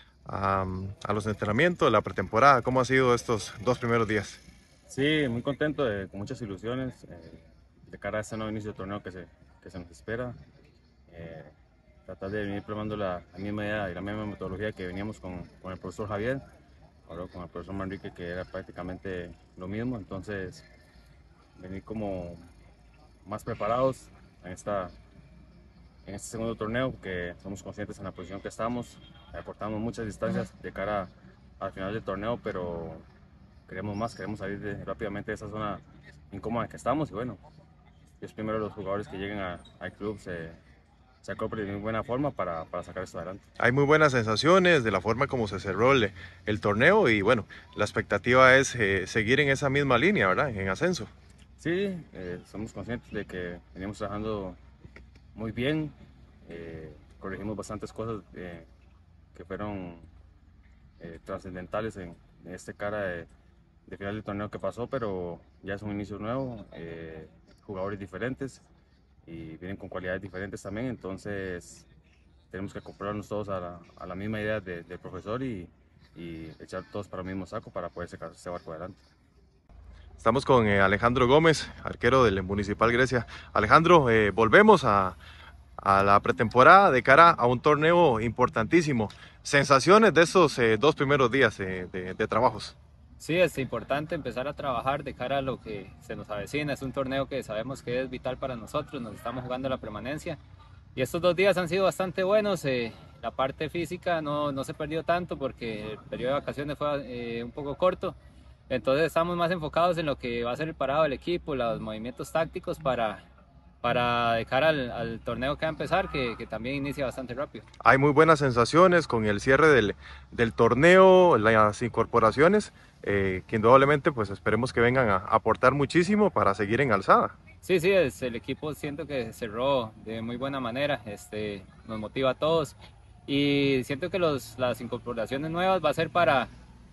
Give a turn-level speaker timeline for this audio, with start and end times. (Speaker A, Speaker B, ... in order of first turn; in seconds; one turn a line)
Speaker A: 0.2-4.4
Speaker B: 4.9-10.4
Speaker B: 11.1-11.5
Speaker B: 12.1-16.4
Speaker B: 17.1-20.7
Speaker B: 21.6-22.5
Speaker B: 23.2-24.9
Speaker B: 26.1-33.0
Speaker B: 33.7-37.4
Speaker B: 38.2-40.6
Speaker B: 41.2-43.4
Speaker A: 43.6-51.1
Speaker B: 51.6-54.6
Speaker B: 55.3-55.9
Speaker B: 56.5-58.7
Speaker B: 59.3-60.1
Speaker B: 61.0-63.3
Speaker B: 63.9-68.6
Speaker B: 69.2-71.8
Speaker B: 72.5-79.0
Speaker A: 80.2-85.2
Speaker A: 85.8-92.7
Speaker C: 93.2-100.4
Speaker C: 100.9-108.2
Speaker C: 108.7-113.2
Speaker C: 113.8-117.7
Speaker A: 117.8-127.3
Speaker C: 127.6-136.5